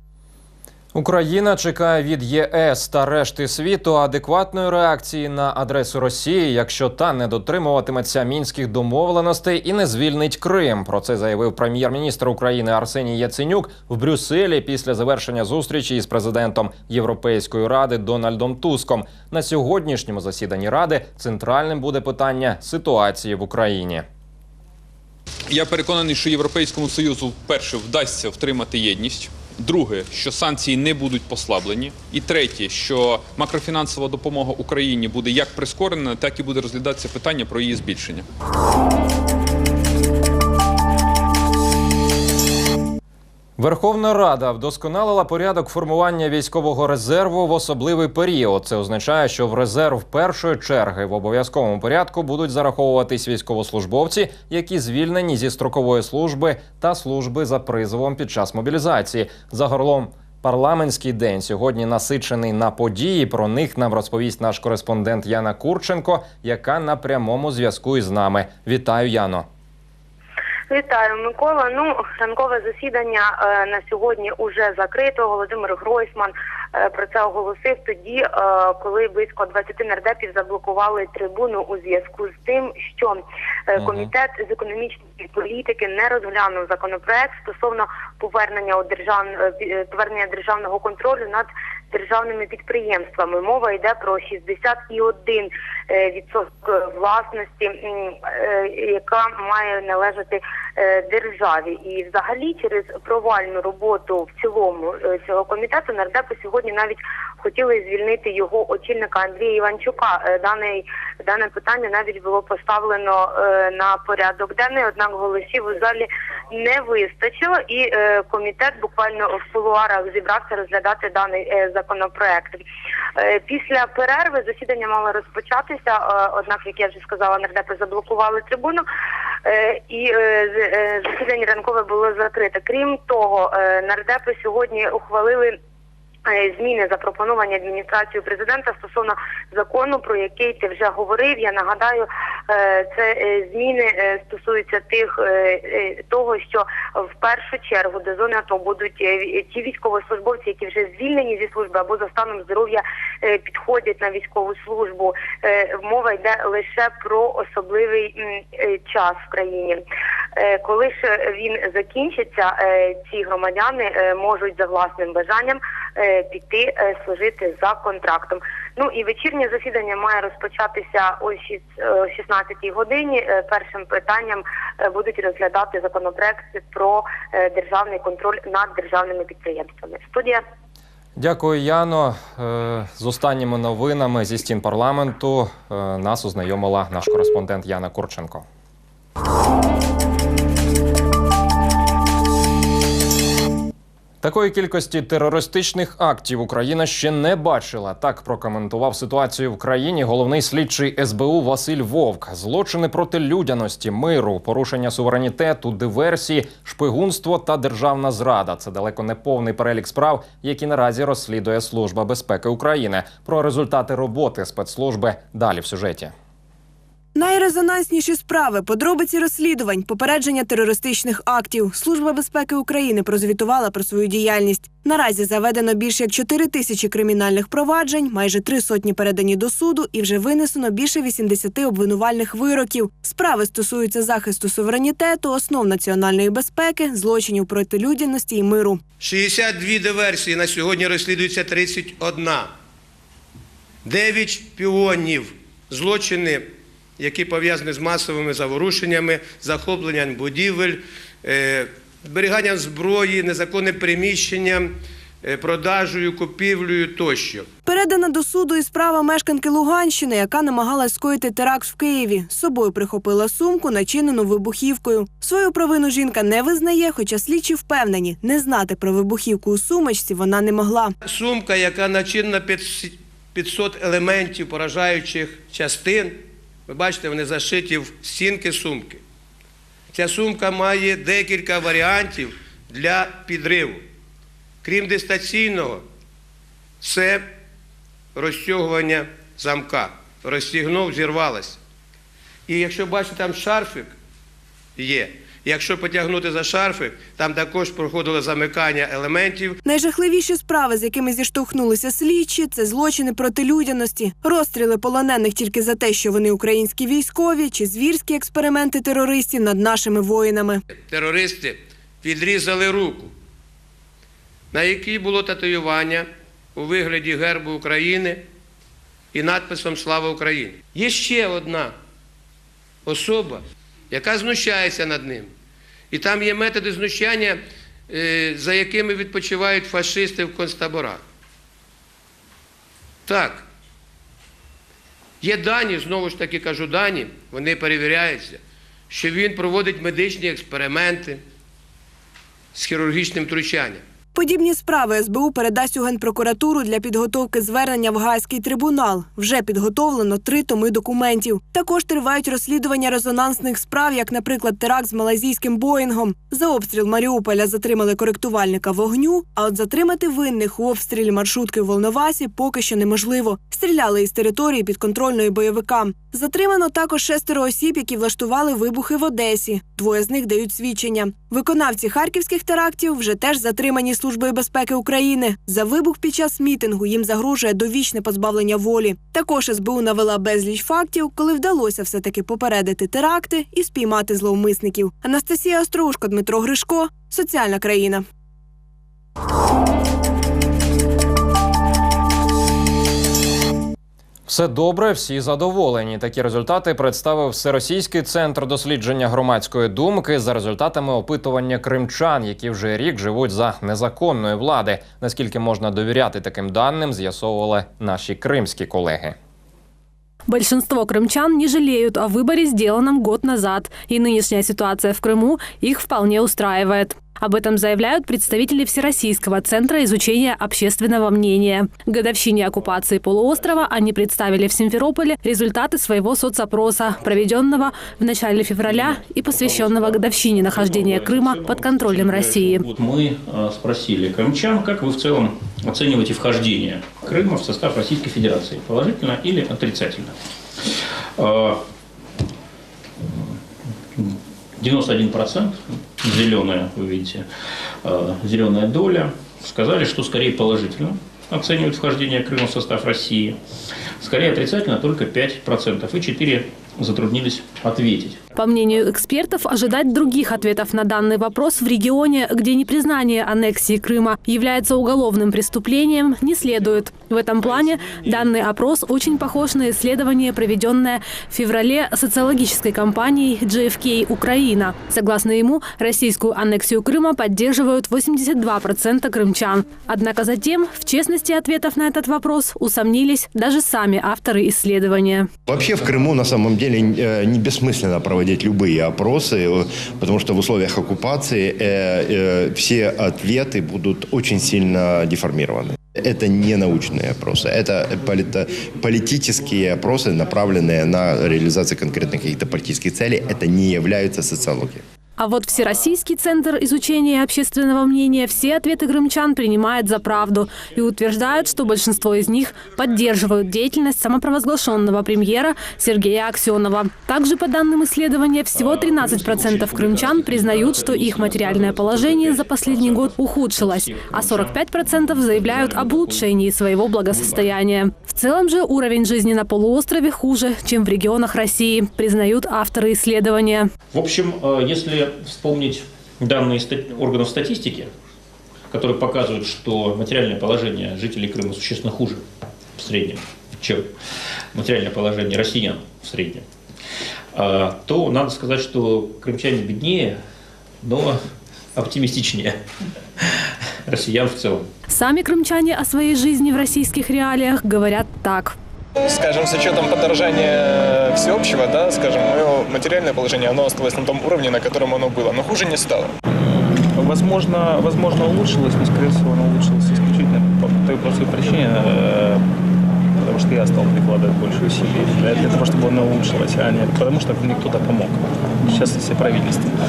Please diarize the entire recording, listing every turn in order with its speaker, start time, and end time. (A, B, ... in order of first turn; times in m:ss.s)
0:01.0-0:24.0 A
0:25.5-0:38.2 B
0:43.6-1:09.5 A
1:10.7-2:02.6 C
2:03.2-2:08.8 C
2:09.4-2:15.6 C
2:16.3-2:39.8 C
2:40.4-3:00.4 C
3:01.2-3:08.5 A
3:14.2-3:36.1 A
3:37.2-3:58.8 D
3:59.0-4:02.5 E
4:03.8-4:17.5 E
4:17.7-4:30.9 D
4:31.0-4:39.0 E
4:39.9-4:43.8 E
4:44.6-4:45.8 E
4:46.8-4:47.3 E
4:48.2-4:51.6 E
4:52.5-4:53.9 E
4:54.8-4:59.6 E
4:59.6-5:10.6 D
5:10.9-5:13.1 E
5:14.5-5:18.2 E
5:19.1-5:21.8 E
5:22.8-5:25.3 E
5:25.9-5:31.0 E
5:33.1-5:33.5 E
5:35.2-5:41.2 E
5:42.5-5:43.8 E
5:44.2-6:28.0 D
6:34.3-6:49.2 A
6:50.3-7:12.6 F
7:08.6-7:20.1 G
7:21.2-7:21.6 G
7:23.1-7:23.3 G
7:24.0-7:27.3 G
7:27.8-7:33.4 G
7:34.0-7:38.2 G
7:38.4-8:05.3 F
8:05.5-8:24.8 H
8:25.2-8:53.7 F
8:38.6-8:46.3 G
8:47.1-8:47.5 G
8:53.9-8:57.9 G
8:58.7-9:02.2 G
9:02.8-9:03.9 G
9:04.5-9:06.4 G
9:07.3-9:10.2 G
9:10.8-9:11.2 G
9:11.8-9:12.6 G
9:13.2-9:14.7 G
9:14.9-9:18.6 F
9:19.1-9:26.1 I
9:26.8-9:32.4 J
9:33.2-9:39.8 J